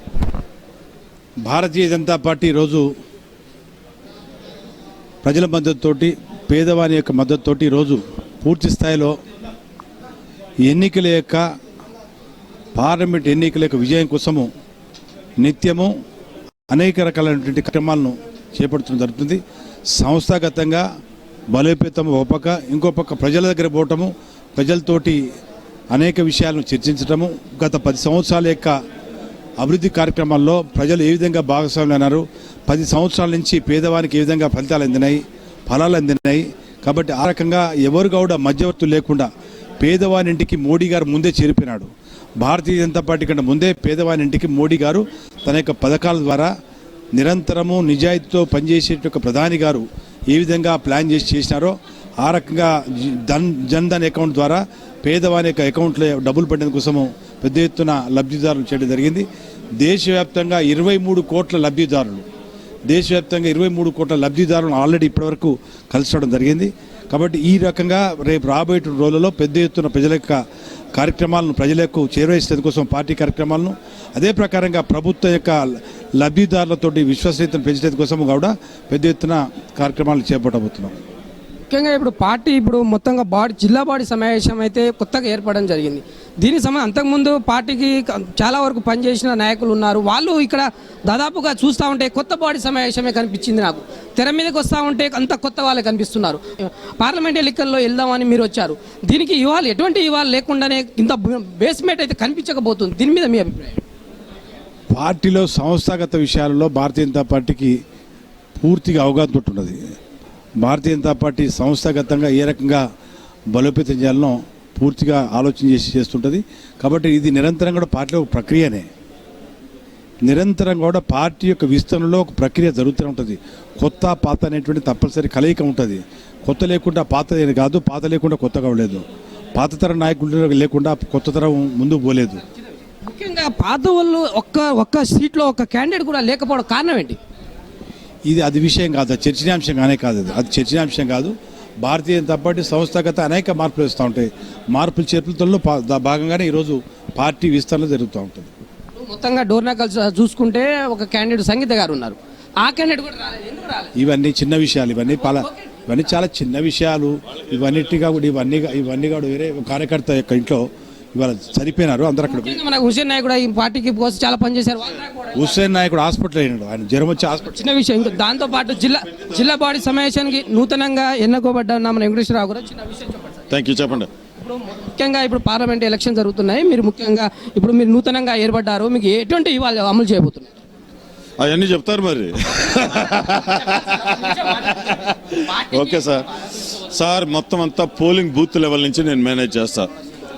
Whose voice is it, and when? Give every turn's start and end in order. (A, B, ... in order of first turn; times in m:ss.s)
0:01.4-0:02.9 A
0:05.2-0:09.2 A
0:10.6-0:11.4 A
0:12.7-0:14.5 A
0:15.4-0:15.9 A
0:16.7-0:19.4 A
0:19.9-0:20.8 A
0:21.5-0:25.2 A
0:25.9-0:28.8 A
0:29.6-0:39.3 A
0:39.8-0:41.9 A
0:42.4-0:46.5 A
0:47.1-0:59.3 A
0:59.8-1:02.2 A
1:02.9-1:10.4 A
1:10.9-1:20.9 A
1:21.7-1:43.8 B
1:44.9-1:47.8 A
1:48.6-1:49.8 A
1:50.6-1:52.8 A
1:53.5-1:58.9 A
2:00.2-2:09.0 A
2:09.5-2:12.4 A
2:13.0-2:17.2 B
2:18.3-2:28.5 A
2:29.0-2:33.9 B
2:34.0-2:42.6 A
2:42.3-2:45.5 B
2:45.3-2:47.6 A
2:47.5-2:53.4 B
2:53.5-2:54.1 C
2:54.4-3:00.5 B
3:01.4-3:09.9 C